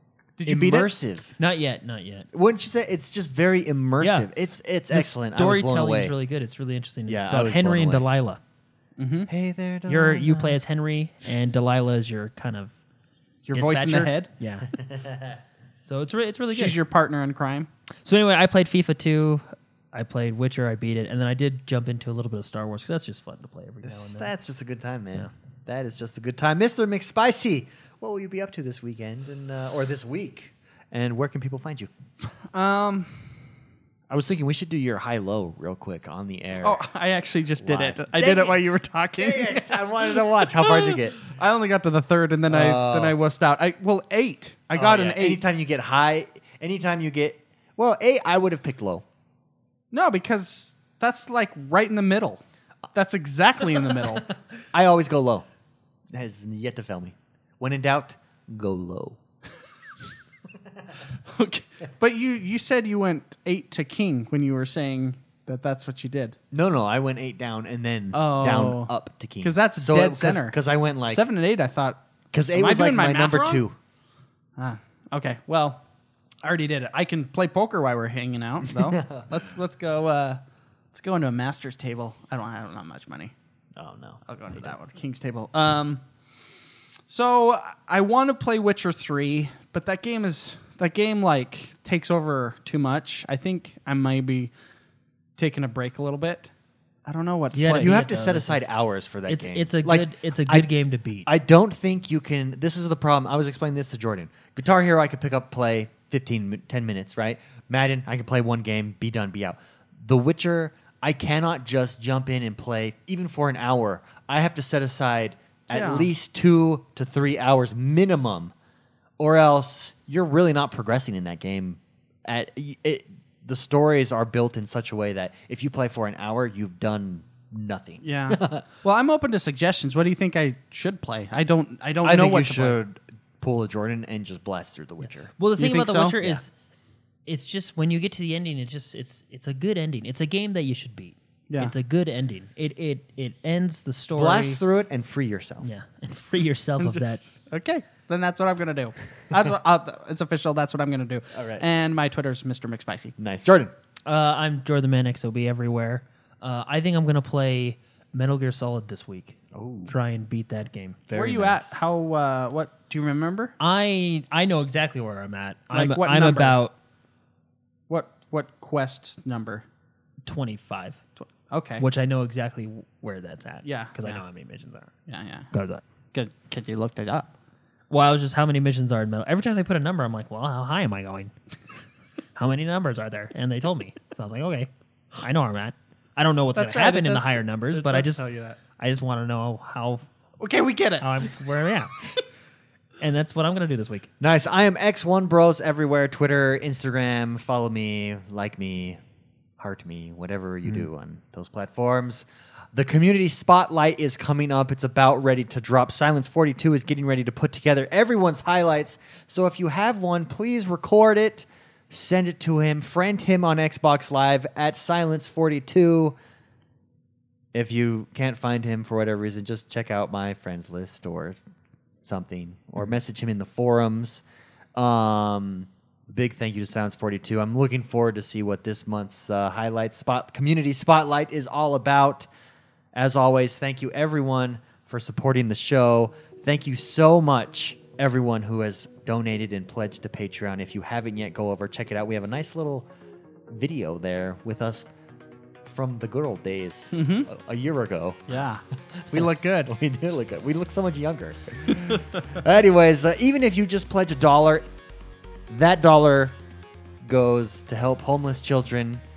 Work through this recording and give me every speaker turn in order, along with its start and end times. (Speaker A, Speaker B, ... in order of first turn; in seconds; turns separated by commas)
Speaker A: 0.4-0.9, Speaker B: 0.5-1.4, Speaker C: 1.4-2.3, Speaker B: 2.3-6.1, Speaker C: 4.0-4.3, Speaker C: 4.9-8.4, Speaker B: 7.1-8.1, Speaker A: 9.0-9.3, Speaker B: 9.3-10.6, Speaker C: 9.9-12.7, Speaker A: 13.5-14.3, Speaker C: 13.5-14.7, Speaker B: 14.7-15.4, Speaker C: 15.8-16.8, Speaker A: 16.5-17.7, Speaker C: 18.1-24.3, Speaker B: 23.8-31.9, Speaker A: 32.5-33.1, Speaker B: 34.1-36.8, Speaker A: 36.6-45.4, Speaker B: 37.6-41.2, Speaker B: 42.5-43.2, Speaker B: 44.8-49.0, Speaker A: 49.9-52.4, Speaker A: 52.9-54.3, Speaker B: 54.7-55.5, Speaker B: 56.1-59.2, Speaker A: 61.3-66.4, Speaker B: 66.5-71.2, Speaker A: 68.1-70.6, Speaker A: 71.1-72.0, Speaker B: 72.3-73.8, Speaker A: 72.5-73.7, Speaker A: 74.6-75.8, Speaker A: 76.4-80.4, Speaker B: 78.7-79.5, Speaker A: 80.9-83.3, Speaker B: 83.8-84.2, Speaker A: 84.3-86.0, Speaker A: 87.1-94.5, Speaker A: 95.4-96.5, Speaker A: 97.1-98.0, Speaker C: 97.5-98.7, Speaker B: 97.8-100.7, Speaker C: 99.3-101.3, Speaker B: 101.2-118.5, Speaker A: 115.7-116.1, Speaker B: 119.2-128.6, Speaker A: 128.0-132.8, Speaker B: 132.0-135.3, Speaker C: 135.4-136.5, Speaker A: 135.6-136.2, Speaker C: 137.3-144.6, Speaker A: 141.5-141.7, Speaker B: 144.2-145.7, Speaker C: 145.6-147.2, Speaker A: 146.8-153.2, Speaker B: 151.3-151.6, Speaker B: 153.2-153.7, Speaker C: 154.1-161.0, Speaker B: 159.5-159.9, Speaker B: 161.1-161.8, Speaker A: 161.1-163.6, Speaker C: 163.6-166.8, Speaker A: 165.7-166.6, Speaker A: 167.9-169.7, Speaker C: 170.2-171.0, Speaker A: 171.2-171.8, Speaker C: 171.8-174.9, Speaker A: 173.6-174.2, Speaker A: 175.1-175.5, Speaker C: 175.5-175.8, Speaker A: 176.1-177.3, Speaker C: 177.9-181.3, Speaker C: 182.3-184.7, Speaker C: 185.2-188.2, Speaker A: 186.6-188.6, Speaker C: 188.8-190.1, Speaker A: 190.4-191.4, Speaker C: 191.0-192.0, Speaker C: 193.0-194.1, Speaker B: 194.2-199.0, Speaker B: 199.6-216.2, Speaker B: 217.5-221.4, Speaker B: 222.0-224.2, Speaker B: 224.8-232.3, Speaker B: 232.9-242.9, Speaker B: 243.5-244.9, Speaker B: 245.6-248.4, Speaker A: 246.9-247.3, Speaker A: 248.3-249.7, Speaker B: 248.9-254.7, Speaker B: 255.5-256.4, Speaker B: 257.0-259.0